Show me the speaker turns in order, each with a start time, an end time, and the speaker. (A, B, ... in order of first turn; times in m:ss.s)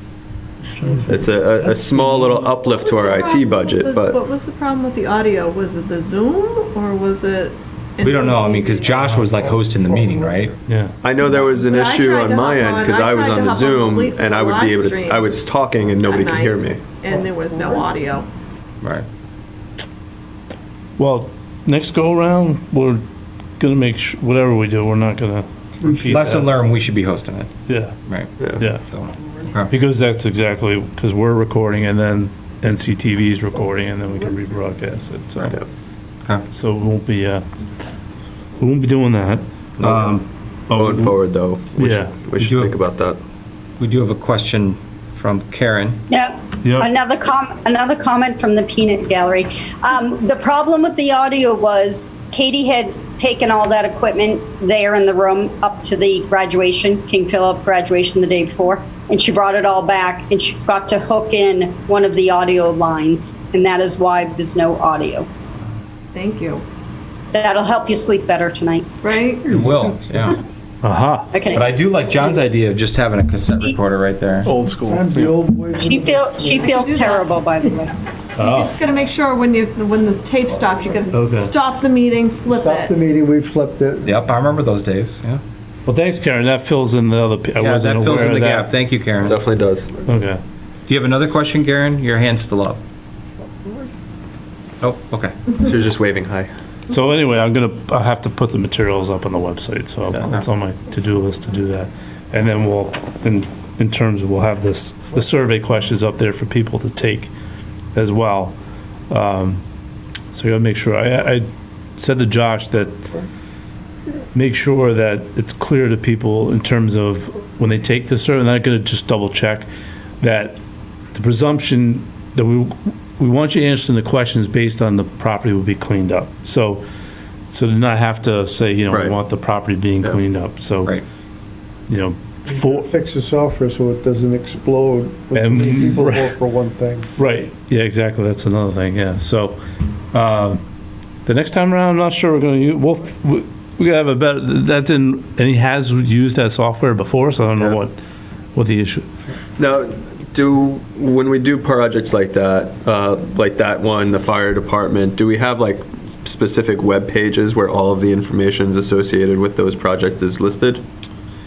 0:00.8-0:02.4 A
0:01.1-0:04.2 B
0:02.7-0:09.1 C
0:08.0-0:10.6 D
0:10.7-0:11.0 E
0:11.0-0:16.8 B
0:11.2-0:15.4 C
0:16.0-0:18.3 C
0:21.0-0:23.0 E
0:23.6-0:26.5 E
0:25.8-0:26.2 A
0:26.1-0:27.5 D
0:27.7-0:28.0 E
0:28.6-0:28.8 E
0:28.9-0:29.7 D
0:29.7-0:35.6 E
0:36.5-0:37.5 E
0:38.6-0:41.2 E
0:40.8-0:43.2 B
0:41.8-0:42.2 E
0:42.4-0:42.7 D
0:43.8-0:46.0 D
0:46.1-1:05.3 F
0:46.6-0:46.9 E
1:06.1-1:06.6 C
1:07.3-1:09.0 F
1:09.0-1:09.6 C
1:09.5-1:10.4 D
1:10.8-1:11.3 E
1:11.3-1:11.7 F
1:11.5-1:14.5 D
1:14.4-1:15.4 B
1:14.8-1:16.7 A
1:15.8-1:17.9 F
1:16.6-1:17.8 C
1:18.4-1:18.7 E
1:18.4-1:23.0 C
1:21.1-1:21.5 E
1:22.4-1:24.2 A
1:24.0-1:25.4 D
1:25.9-1:28.7 E
1:27.6-1:29.4 D
1:29.2-1:29.9 B
1:30.1-1:30.4 E
1:30.9-1:32.8 D
1:34.8-1:35.4 D
1:35.6-1:36.5 B
1:36.9-1:47.3 E
1:48.0-1:48.6 E
1:49.1-1:49.6 E
1:50.3-1:51.5 E
1:52.0-1:53.1 E
1:54.3-1:59.7 E
2:00.2-2:00.6 E
2:01.1-2:06.8 E
2:07.5-2:10.9 E
2:08.9-2:09.2 B
2:11.9-2:12.9 E
2:12.5-2:17.1 A
2:15.4-2:16.3 E
2:17.2-2:19.6 E
2:20.1-2:20.6 E
2:21.3-2:28.0 E
2:28.6-2:29.1 E
2:29.6-2:40.8 B